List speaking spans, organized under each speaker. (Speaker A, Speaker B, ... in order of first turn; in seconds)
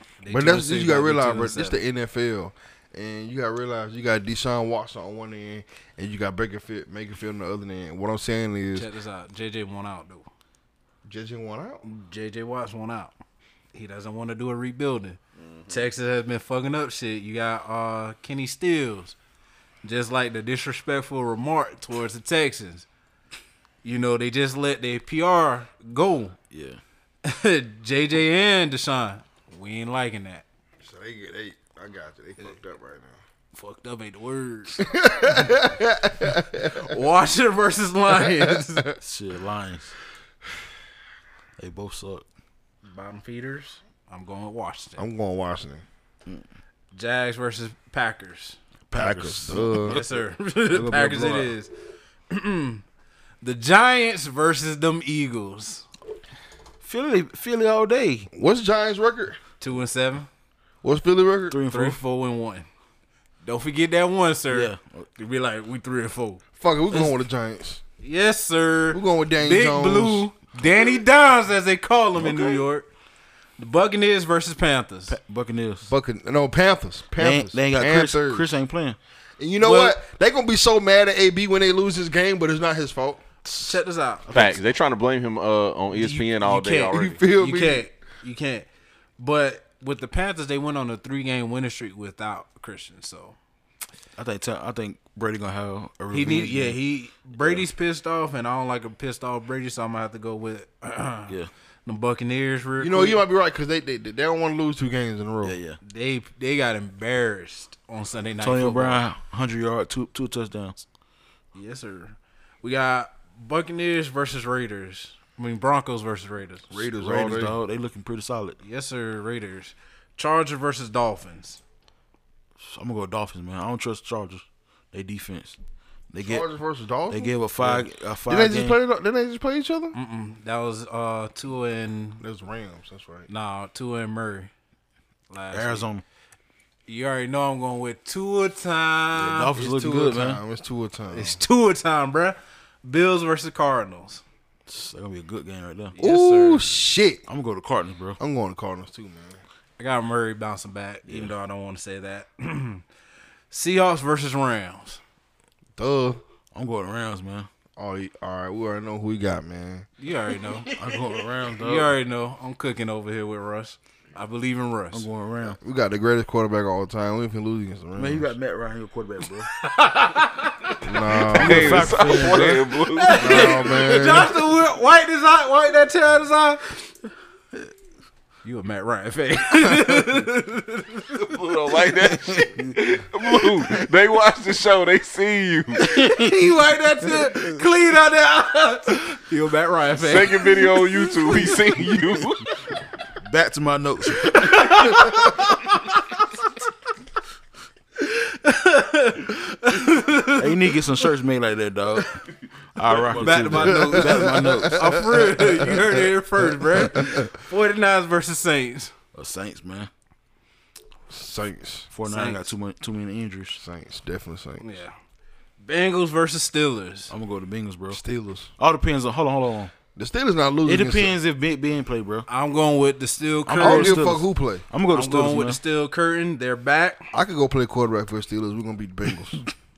Speaker A: 0.2-1.8, 8.8-10.3, 11.8-13.1, 13.7-19.1, 19.8-22.9, 23.8-26.4, 27.2-30.4, 33.5-34.9, 36.8-38.9, 42.9-45.0, 46.9-48.6, 49.8-51.7, 52.3-52.8, 53.4-55.9, 59.6-60.3, 61.7-62.7, 63.4-66.4, 68.0-72.9, 73.6-75.2, 79.6-80.0, 83.5-84.3, 85.9-88.7, 89.2-93.4, 96.1-101.3, 101.9-103.2, 105.8-109.0, 111.5-116.9, 118.6-121.6, 129.9-132.2, 133.3-134.5, 135.3-135.9, 136.9-140.2, 141.1-144.2, 146.0-146.7, 149.8-152.8, 153.5-155.0, 160.0-160.7, 161.5-165.1, 169.6-170.8, 172.9-176.8, 178.4-181.2, 185.9-191.3, 194.2-196.0, 198.0-200.6, 203.2-208.9, 212.1-212.5, 214.6-214.9, 215.6-217.1, 222.3-224.1, 224.9-227.1
Speaker B: 0.3-8.9, 11.1-11.8, 30.8-33.2, 34.8-36.9, 38.3-38.9, 45.0-45.8, 49.0-50.0, 58.3-59.4, 60.8-61.6, 66.6-67.8, 68.9-70.3, 75.8-78.5, 79.4-83.2, 86.9-87.9, 102.8-105.6, 116.7-117.5, 126.2-127.4, 128.3-129.9, 132.2-133.3, 140.1-141.4, 146.0-147.2, 148.2-149.4, 155.8-156.2, 157.8-159.9, 165.6-168.3, 170.8-172.0, 173.2-174.3, 203.6-206.0, 207.0-207.3, 211.1-211.9, 213.6-214.8, 217.9-218.5, 219.9-221.1, 223.6-224.7, 227.1-229.4
Speaker C: 15.4-15.8, 84.3-87.2, 171.4-173.4, 181.2-185.8, 190.0-192.4
Speaker D: 26.5-26.8, 39.0-39.9, 41.6-42.2, 48.9-51.5, 56.8-58.3, 61.5-62.0, 64.5-65.1, 72.2-72.6, 75.1-75.9, 77.2-79.0, 83.5-83.8, 84.3-84.6, 94.2-96.8, 97.3-97.7, 105.4-105.8, 108.4-110.8, 117.0-118.6, 122.6-125.6, 126.1-126.5, 127.1-128.8, 135.5-136.0, 139.1-140.4, 144.7-145.9, 147.3-148.2, 151.1-151.3, 156.5-157.5, 160.8-161.9, 164.9-165.6, 168.0-169.5, 171.2-172.7, 182.0-182.7, 185.9-186.3, 193.2-194.7, 200.4-202.2, 202.8-204.8, 209.1-209.9, 211.9-213.6, 217.1-218.0, 218.6-219.7, 220.7-222.3, 223.5-225.6